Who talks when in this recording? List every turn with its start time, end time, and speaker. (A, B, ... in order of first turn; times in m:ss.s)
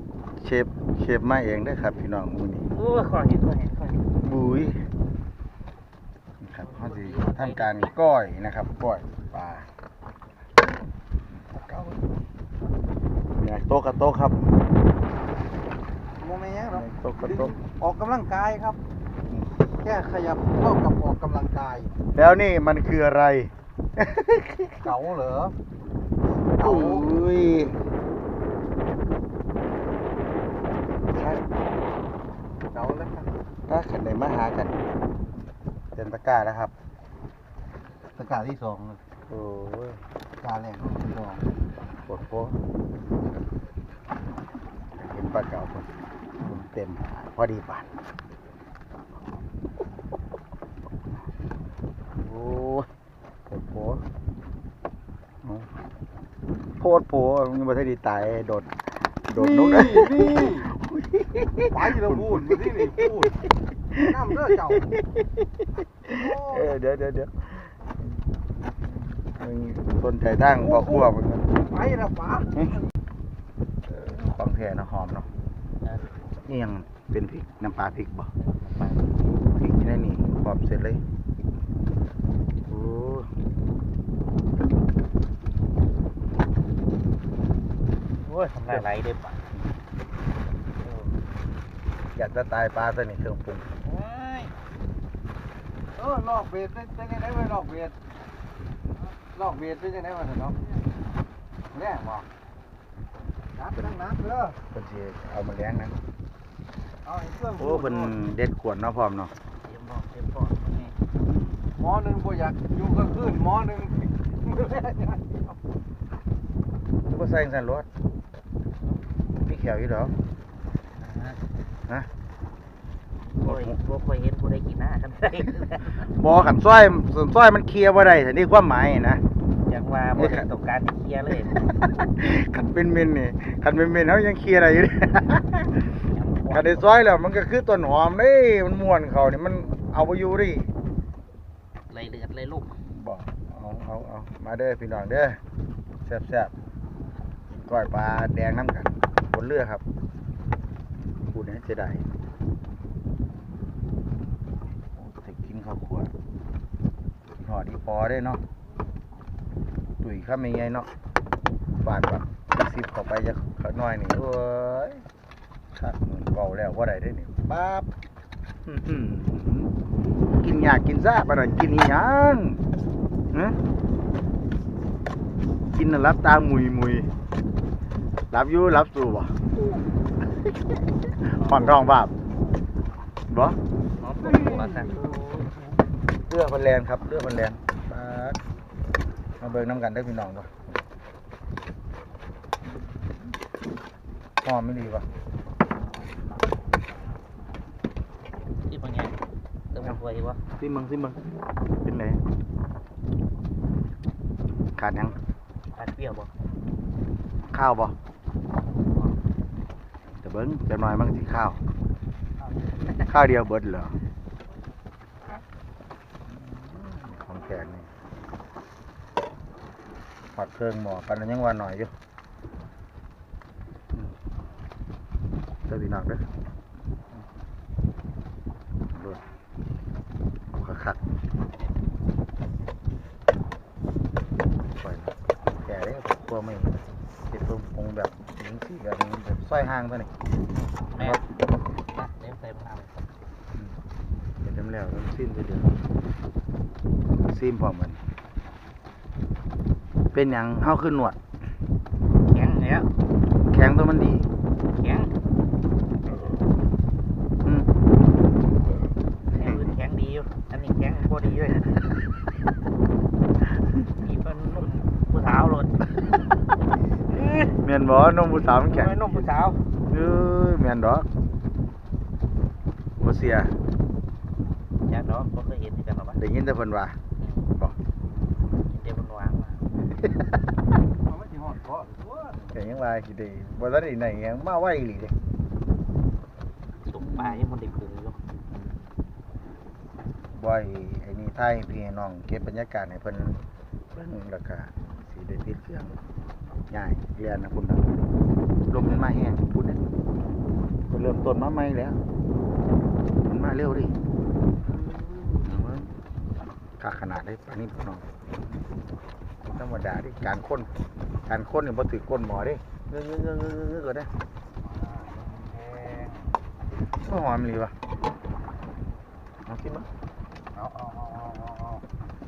0:00.4-0:02.7 A
0:02.7-0:04.1 B
0:04.2-0:04.8 A
0:06.4-0:09.7 A
0:06.6-0:07.9 B
0:11.4-0:12.0 A
0:13.4-0:14.4 A
0:16.2-0:18.8 C
0:16.7-0:17.6 A
0:19.7-0:22.0 C
0:22.1-0:24.9 A
0:24.8-0:25.5 C
0:26.6-0:27.0 C
0:26.6-0:27.8 A
0:31.1-0:31.4 A
0:32.7-0:33.3 C
0:33.7-0:34.8 A
0:35.9-0:36.7 A
0:38.2-0:39.0 C
0:39.3-0:40.0 A
0:40.4-0:41.2 C
0:42.0-0:42.6 A
0:45.0-0:45.9 A
0:46.4-0:47.9 A
0:52.2-0:52.9 A
0:53.5-0:54.0 A
0:55.4-0:55.7 A
0:56.8-1:03.0 A
0:59.3-1:00.7 C
1:01.7-1:03.3 C
1:03.9-1:05.4 A
1:04.0-1:04.9 C
1:06.0-1:07.7 A
1:06.1-1:06.6 C
1:09.2-1:11.6 A
1:10.6-1:11.1 C
1:11.6-1:12.5 C
1:12.5-1:12.8 A
1:13.8-1:15.3 A
1:16.4-1:18.3 A
1:18.4-1:19.1 B
1:19.5-1:21.0 A
1:22.7-1:23.3 A
1:28.2-1:29.4 B
1:32.1-1:33.7 A
1:33.8-1:34.5 B
1:36.0-1:37.9 C
1:39.4-1:40.6 C
1:41.7-1:42.2 C
1:43.6-1:44.6 C
1:44.7-1:46.0 A
1:47.0-1:48.2 C
1:47.6-1:49.3 A
1:49.6-1:50.9 B
1:51.8-1:55.3 C
1:57.1-1:57.9 A
1:59.4-2:00.1 A
2:01.0-2:01.4 B
2:03.4-2:06.0 B
2:03.4-2:03.7 A
2:06.0-2:09.2 A
2:09.6-2:11.7 B
2:10.1-2:10.5 A
2:11.5-2:15.7 A
2:16.0-2:17.1 B
2:16.5-2:20.7 A
2:21.9-2:22.8 B
2:22.8-2:25.4 A
2:26.0-2:26.5 A
2:27.6-2:29.8 A
2:31.3-2:32.0 A
2:35.0-2:36.1 A
2:37.4-2:38.4 A
2:40.0-2:40.9 A
2:41.8-2:45.0 A
2:45.7-2:47.9 A
2:48.6-2:49.7 A
2:50.3-2:52.6 A
2:53.3-2:53.6 A
2:55.7-2:57.1 A
2:58.3-2:59.4 A
3:01.2-3:02.1 A
3:01.4-3:01.8 B
3:03.3-3:03.6 A
3:04.0-3:05.4 B
3:04.4-3:05.2 C
3:06.2-3:08.4 A
3:09.4-3:10.8 A
3:14.4-3:15.0 A
3:18.6-3:19.2 B
3:19.7-3:20.4 B
3:20.6-3:21.2 A
3:21.8-3:22.2 A
3:24.8-3:25.2 A
3:25.7-3:26.3 B
3:27.5-3:27.9 A
3:28.7-3:29.2 B
3:30.2-3:31.6 A
3:33.0-3:34.0 A
3:36.3-3:37.9 A
3:40.3-3:41.9 A
3:45.7-3:46.2 A
3:48.9-3:49.2 A
3:50.6-3:51.0 A
3:54.8-4:00.1 A
4:00.9-4:01.2 B
4:01.0-4:01.2 A
4:01.9-4:02.9 B
4:04.4-4:05.7 A
4:07.2-4:08.0 A
4:10.1-4:11.2 A
4:12.2-4:12.9 B
4:13.5-4:14.3 A
4:14.7-4:15.1 B
4:19.3-4:22.0 B
4:24.0-4:26.1 B
4:27.1-4:27.5 B
4:27.6-4:29.2 A
4:28.7-4:29.6 B
4:29.9-4:31.1 A
4:33.0-4:33.6 A
4:34.8-4:36.2 B
4:36.2-4:37.0 A
4:37.2-4:37.5 B
4:38.7-4:39.6 B
4:41.0-4:42.4 C
4:42.5-4:45.1 A
4:46.8-4:48.2 B
4:47.0-4:47.4 A
4:50.3-4:53.4 A
4:53.9-4:56.0 A
4:56.7-4:57.9 A
4:58.7-4:59.8 A
5:00.9-5:02.0 A
5:03.2-5:03.9 A
5:04.8-5:05.4 C
5:05.4-5:05.9 A
5:06.8-5:08.1 A
5:09.4-5:10.7 A
5:11.3-5:14.1 A
5:14.6-5:16.3 C
5:17.0-5:17.7 A
5:19.4-5:19.9 A
5:20.5-5:21.8 C